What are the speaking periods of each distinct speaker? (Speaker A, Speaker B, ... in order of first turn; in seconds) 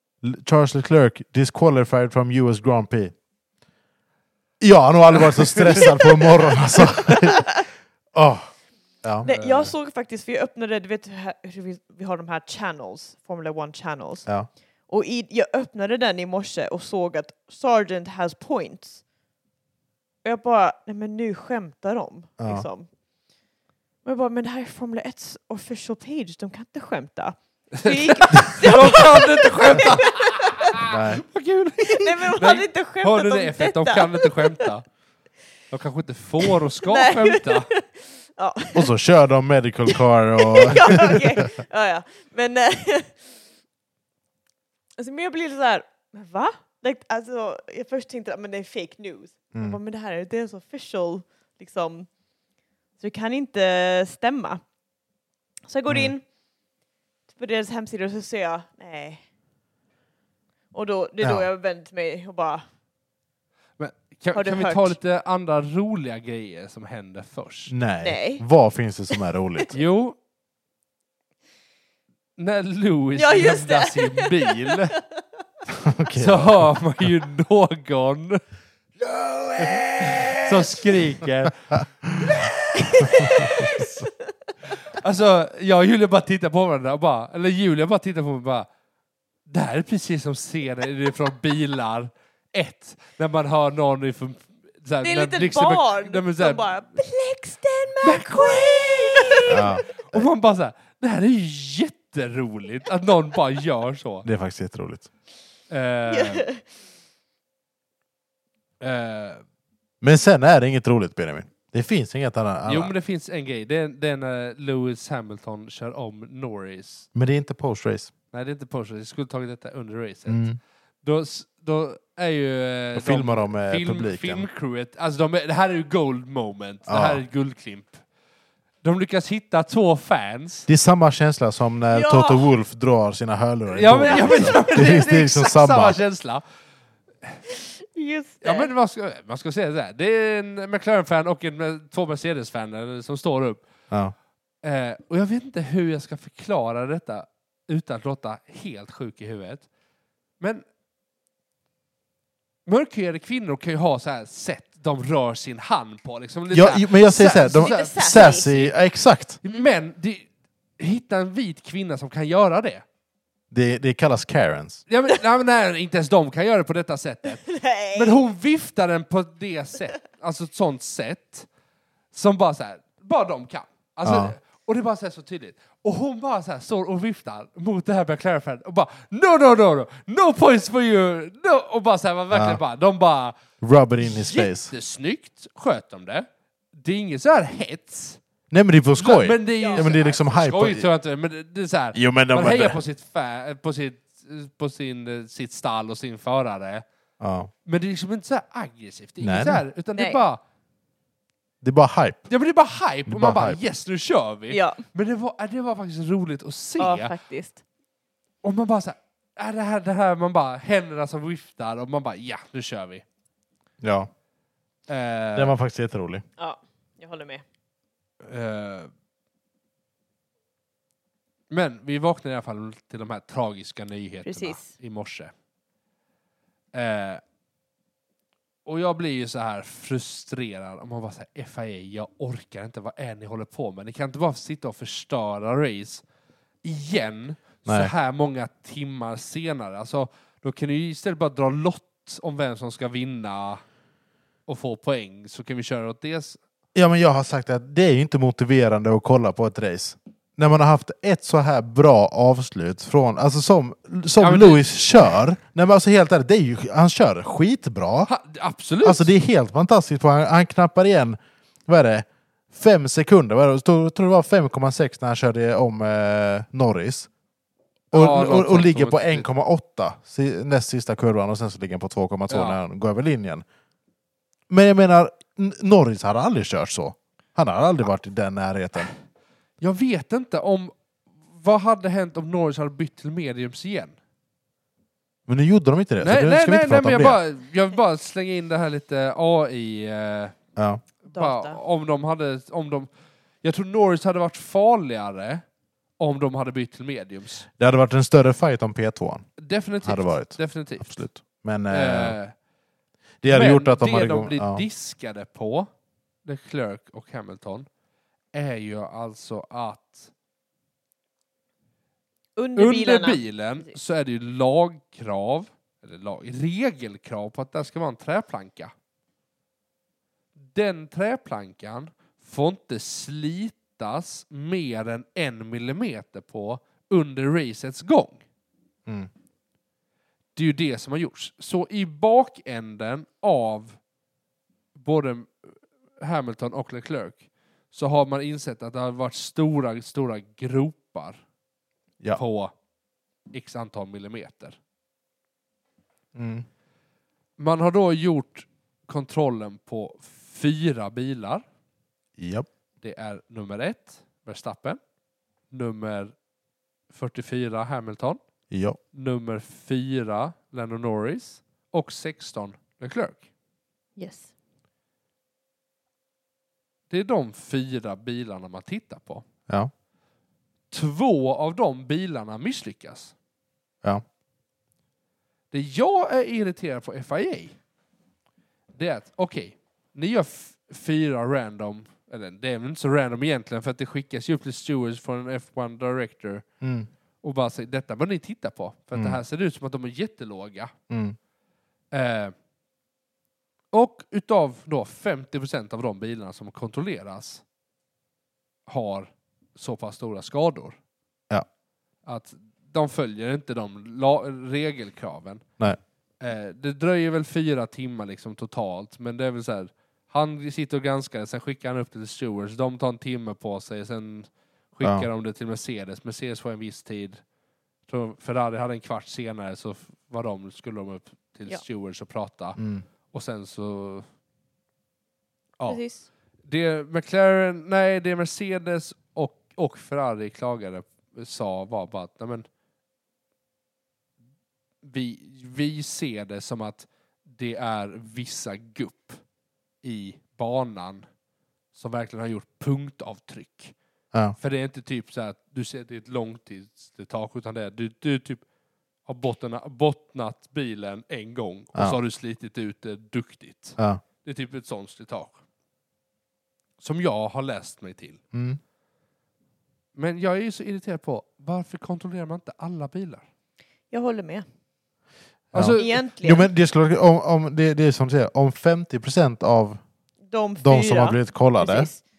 Speaker A: 0.2-3.1, 4.6-9.2, 22.4-22.6, 30.8-31.2, 38.7-41.4, 49.5-49.8, 61.2-61.5, 67.7-69.8, 75.7-76.7, 99.5-100.3, 104.2-105.1, 110.0-112.9, 117.1-118.1, 120.3-120.6, 122.9-124.5, 126.9-127.2, 130.7-136.0, 143.9-144.1, 156.5-159.4, 163.5-164.8, 174.0-174.3, 182.3-182.6, 183.6-184.7, 188.5-190.9, 191.9-192.8, 197.2-197.5, 199.2-199.6, 201.6-202.3, 203.1-203.6, 213.8-214.1, 215.3-216.2, 237.7-237.9, 246.7-258.1, 258.8-267.1, 267.9-273.4, 274.5-278.9, 285.3-287.2, 290.6-290.8, 297.6-299.3, 299.8-302.2, 303.2-304.6, 346.1-346.5, 352.2-352.5, 358.5-358.8, 386.6-386.9, 390.9-391.1, 422.6-422.8, 458.3-458.6, 465.5-469.8, 470.6-471.9
Speaker B: 5.2-5.9, 9.2-9.7, 27.8-34.9, 35.7-37.7, 63.8-67.7, 69.7-70.2, 72.4-75.0, 76.2-78.4, 79.6-83.9, 84.7-88.7, 89.5-96.7, 98.0-104.3, 105.7-106.5, 108.8-109.4, 112.7-117.1, 118.3-128.0, 128.8-130.7, 133.7-136.4, 138.4-143.6, 144.6-149.7, 152.7-158.7, 159.4-160.3, 160.8-162.8, 164.9-171.5, 172.1-183.4, 184.0-186.2, 186.8-188.2, 189.0-196.8, 197.7-200.4, 202.3-207.1, 208.4-213.0, 214.9-215.5, 218.2-218.9, 221.5-225.3, 226.7-227.2, 228.6-236.0, 236.6-243.6, 244.5-246.4, 254.2-254.7, 258.1-259.1, 267.9-269.3, 272.3-272.6, 279.6-280.7, 281.3-283.9, 286.0-290.4, 291.1-292.9, 293.4-295.4, 296.0-297.4, 299.4-301.0, 301.7-302.3, 303.3-305.7, 306.2-307.7, 308.3-310.1, 312.6-318.7, 320.5-328.2, 330.3-333.8, 334.8-341.2, 342.1-342.5, 343.3-344.6, 347.4-351.4, 352.8-354.8, 355.5-356.1, 356.9-358.2, 358.9-363.2, 366.9-369.2, 370.7-373.1, 375.5-377.6, 378.7-386.4, 387.2-390.7, 391.9-392.3, 393.7-397.4, 398.7-400.8, 402.1-405.5, 406.2-417.2, 417.9-422.6, 423.1-424.1, 426.4-432.4, 434.8-439.2, 439.8-441.1, 441.7-443.7, 444.4-448.4, 449.1-455.4, 456.8-458.2, 459.9-463.2, 465.5-465.9
Speaker C: 7.3-7.6, 9.2-14.3, 14.9-19.0, 20.2-22.9, 24.0-30.8, 31.8-34.7, 36.5-38.9, 39.9-43.4, 45.0-52.1, 53.0-54.6, 55.7-56.2, 57.3-59.2, 60.7-62.7, 64.3-65.0, 68.0-68.4, 73.1-74.7, 79.0-80.8, 82.3-84.0, 95.0-99.8, 106.1-106.6, 131.9-132.5, 134.1-135.0, 137.6-138.7, 157.5-158.5, 167.4-168.2, 189.5-190.1, 204.5-204.8, 206.8-207.6, 216.4-217.4, 224.2-224.7, 291.1-291.6, 312.4-313.7, 364.0-364.3, 425.7-426.1, 463.9-464.4, 465.7-466.5, 470.3-472.0